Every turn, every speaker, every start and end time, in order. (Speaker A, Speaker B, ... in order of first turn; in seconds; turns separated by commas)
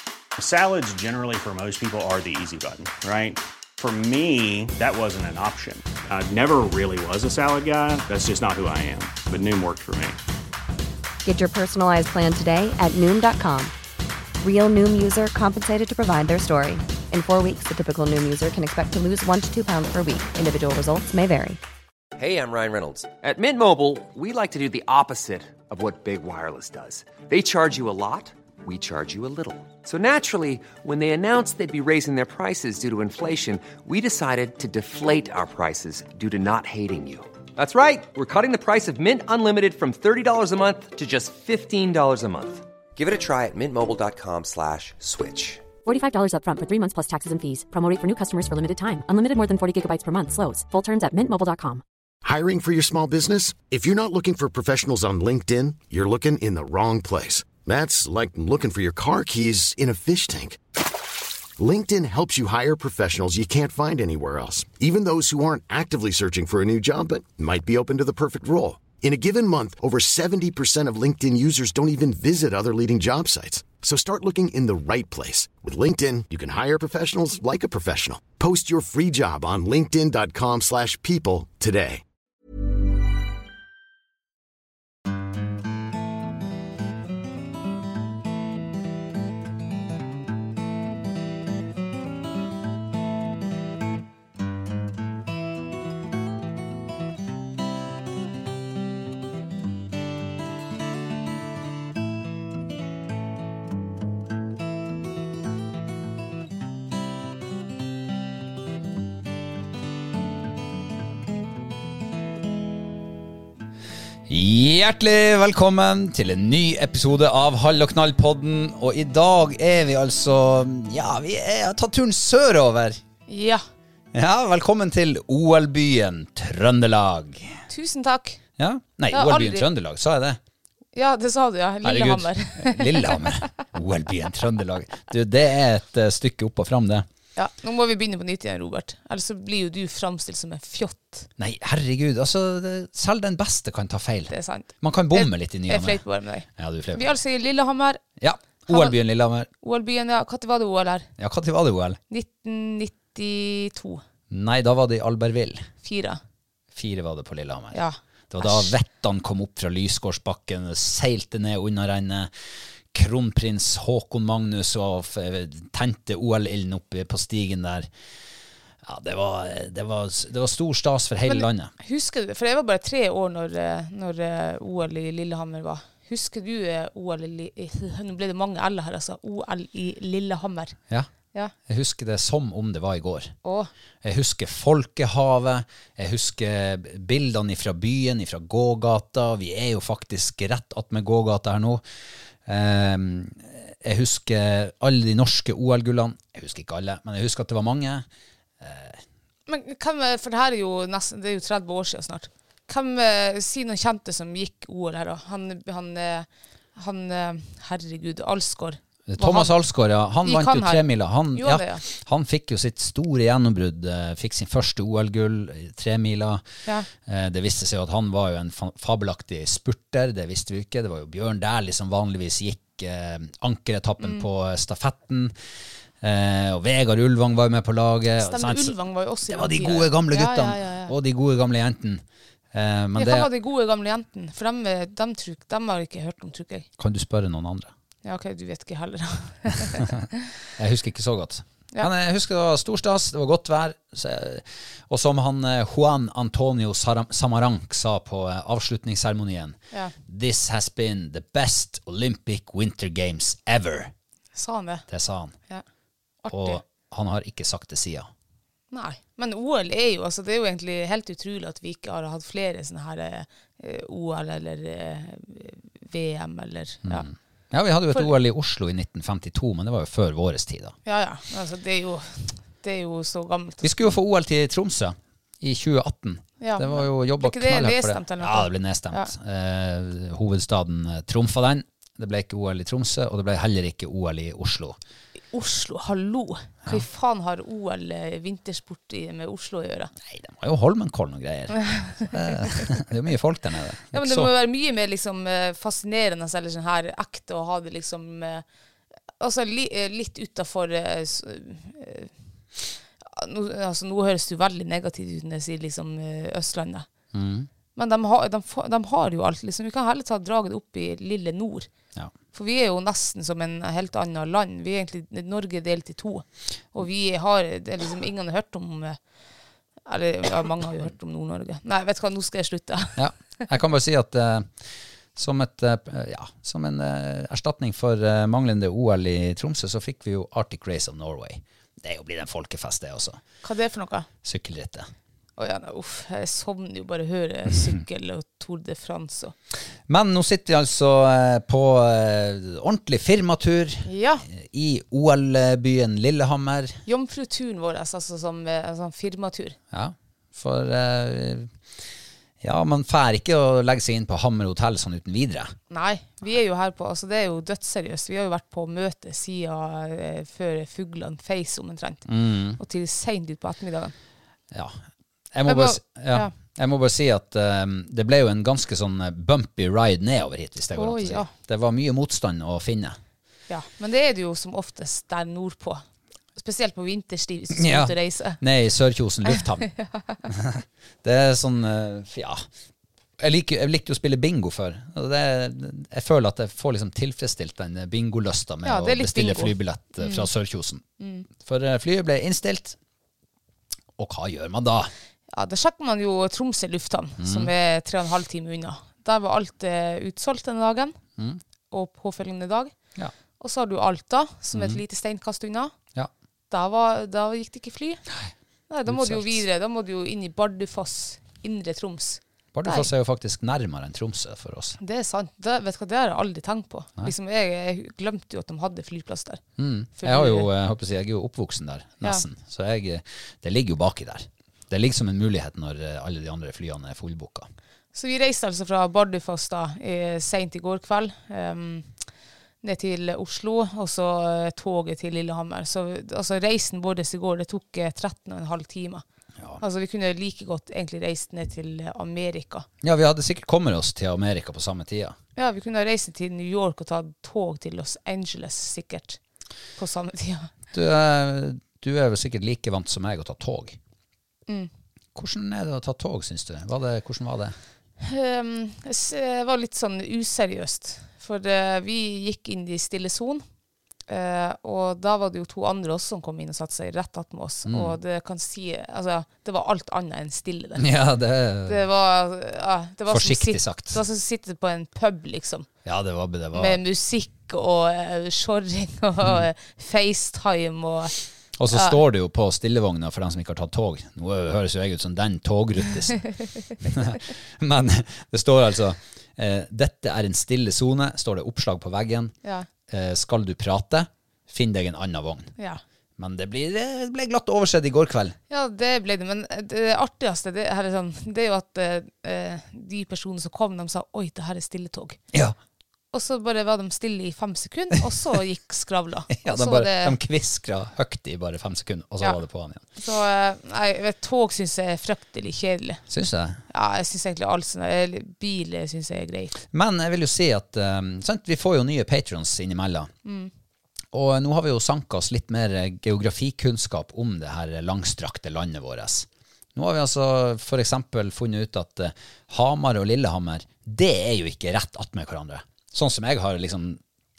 Speaker A: 0.4-10.2, Speaker B: 11.2-13.7, Speaker B: 14.4-21.6, Speaker C: 22.2-45.7, Speaker D: 45.8-51.8, Speaker E: 52.2-60.6, Speaker E: 61.6-82.0, Speaker F: 114.3-123.0, Speaker G: 123.3-123.6, Speaker F: 124.1-127.6, Speaker G: 127.7-128.4, Speaker F: 128.6-130.4, Speaker G: 129.1-129.7, Speaker G: 130.9-133.5, Speaker F: 131.8-137.1, Speaker G: 137.3-141.3, Speaker F: 141.4-147.2, Speaker G: 144.3-148.0, Speaker F: 148.2-149.5, Speaker G: 148.7-149.0, Speaker G: 149.6-151.1, Speaker F: 151.2-152.0, Speaker G: 152.1-154.0, Speaker F: 154.3-155.7, Speaker G: 155.8-156.2, Speaker F: 156.7-162.3, Speaker G: 157.7-158.7, Speaker F: 162.9-167.9, Speaker F: 168.8-171.7, Speaker G: 171.3-180.8, Speaker F: 181.7-183.3, Speaker G: 183.4-183.7, Speaker F: 184.0-191.8, Speaker F: 192.4-198.1, Speaker F: 198.6-199.0, Speaker G: 199.5-209.5, Speaker F: 209.1-216.4, Speaker G: 210.2-211.8, Speaker F: 217.0-225.4, Speaker G: 224.0-224.3, Speaker F: 226.0-228.8, Speaker G: 228.2-230.9, Speaker F: 229.3-233.3, Speaker G: 232.9-236.7, Speaker F: 236.8-237.7, Speaker G: 238.0-239.9, Speaker F: 240.6-253.9, Speaker G: 254.3-254.8, Speaker F: 254.9-255.3, Speaker G: 256.2-256.6, Speaker F: 256.3-258.1, Speaker G: 258.7-267.1, Speaker F: 266.8-270.8, Speaker G: 270.9-273.7, Speaker F: 273.6-284.8, Speaker G: 276.4-279.1, Speaker G: 285.3-289.9, Speaker F: 290.0-294.3, Speaker G: 291.8-292.1, Speaker G: 293.9-298.4, Speaker G: 299.2-302.1, Speaker G: 303.0-306.9, Speaker F: 307.1-307.5, Speaker G: 307.8-311.7, Speaker G: 312.3-319.0, Speaker G: 319.9-323.0, Speaker F: 322.9-324.6, Speaker F: 325.1-333.2, Speaker G: 333.4-334.1, Speaker F: 334.2-334.9, Speaker G: 335.4-339.3, Speaker F: 339.9-346.8, Speaker G: 343.8-344.2, Speaker G: 346.9-349.6, Speaker F: 349.7-351.6, Speaker F: 352.4-355.5, Speaker G: 355.7-363.9, Speaker F: 362.1-362.6, Speaker F: 364.5-373.0, Speaker G: 365.5-366.3, Speaker G: 370.8-371.3, Speaker G: 373.5-375.8, Speaker G: 376.4-378.4, Speaker F: 377.5-379.7, Speaker G: 379.6-380.2, Speaker F: 380.3-382.4, Speaker F: 383.2-390.8, Speaker G: 388.6-390.3, Speaker G: 391.0-391.3, Speaker F: 391.4-392.8, Speaker F: 394.0-394.9, Speaker G: 395.3-401.0, Speaker F: 397.2-397.5, Speaker G: 401.7-402.7, Speaker G: 403.4-405.7, Speaker F: 404.5-404.8, Speaker G: 406.5-408.0, Speaker F: 408.1-408.3, Speaker G: 408.7-412.9, Speaker F: 408.9-409.4, Speaker F: 412.5-414.8, Speaker G: 414.8-419.4, Speaker F: 419.6-427.5, Speaker G: 420.0-420.5, Speaker G: 427.9-431.9, Speaker G: 432.6-439.0, Speaker G: 439.6-442.7, Speaker F: 442.8-445.1, Speaker G: 445.4-449.2, Speaker G: 449.8-450.5, Speaker F: 450.7-453.8, Speaker F: 455.1-457.6, Speaker G: 458.0-463.4, Speaker G: 464.1-470.8, Speaker F: 467.6-468.0, Speaker F: 470.8-471.8, Speaker G: 471.7-475.7, Speaker F: 473.1-474.0, Speaker F: 475.8-476.8, Speaker G: 476.5-481.1, Speaker F: 481.6-492.3, Speaker G: 481.7-482.0, Speaker F: 492.9-495.5, Speaker F: 496.2-498.4, Speaker G: 498.5-505.2, Speaker G: 506.1-510.1, Speaker F: 509.3-512.8, Speaker G: 512.9-516.0, Speaker F: 516.1-516.6, Speaker G: 516.7-519.5, Speaker F: 519.7-523.1, Speaker G: 523.2-523.5, Speaker F: 524.1-537.0